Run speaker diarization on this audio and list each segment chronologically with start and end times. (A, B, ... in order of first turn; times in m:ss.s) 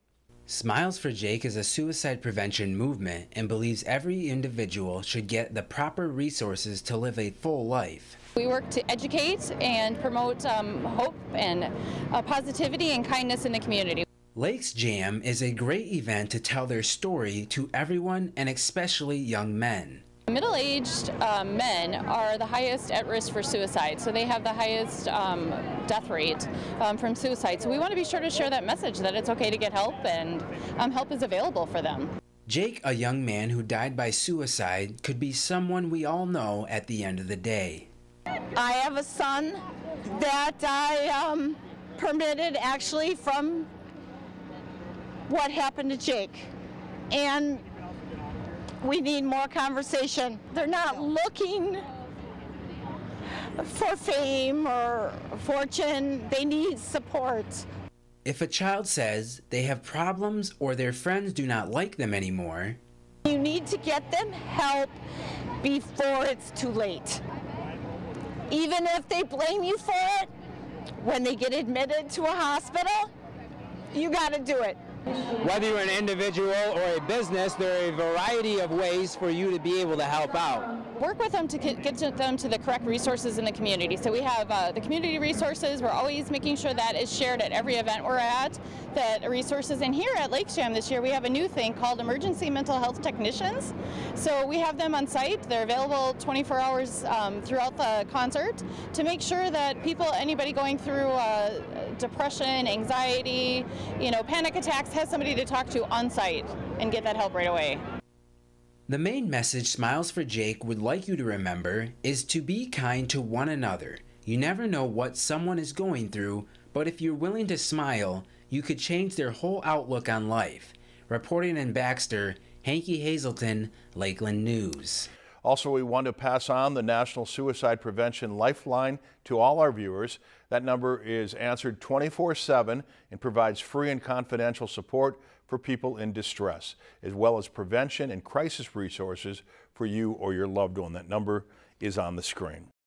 0:00.5-0:08.2 A
0:08.3-0:14.0 B
0:14.3-0:20.0 A
0:20.3-0:32.1 B
0:32.5-0:37.9 A
0:38.5-0:43.7 C
0:45.3-0:46.5 C
0:47.1-0:47.6 C
0:48.8-0:51.8 C
0:53.6-0:57.6 C
0:58.2-1:02.8 A
1:03.2-1:05.0 C
1:05.6-1:07.2 C
1:08.5-1:10.3 C
1:11.0-1:13.1 C
1:13.9-1:14.8 C
1:15.4-1:15.9 D
1:16.5-1:17.5 D
1:19.7-1:20.5 D
1:21.0-1:47.8 B
1:48.9-2:05.1 A
2:05.4-2:22.7 E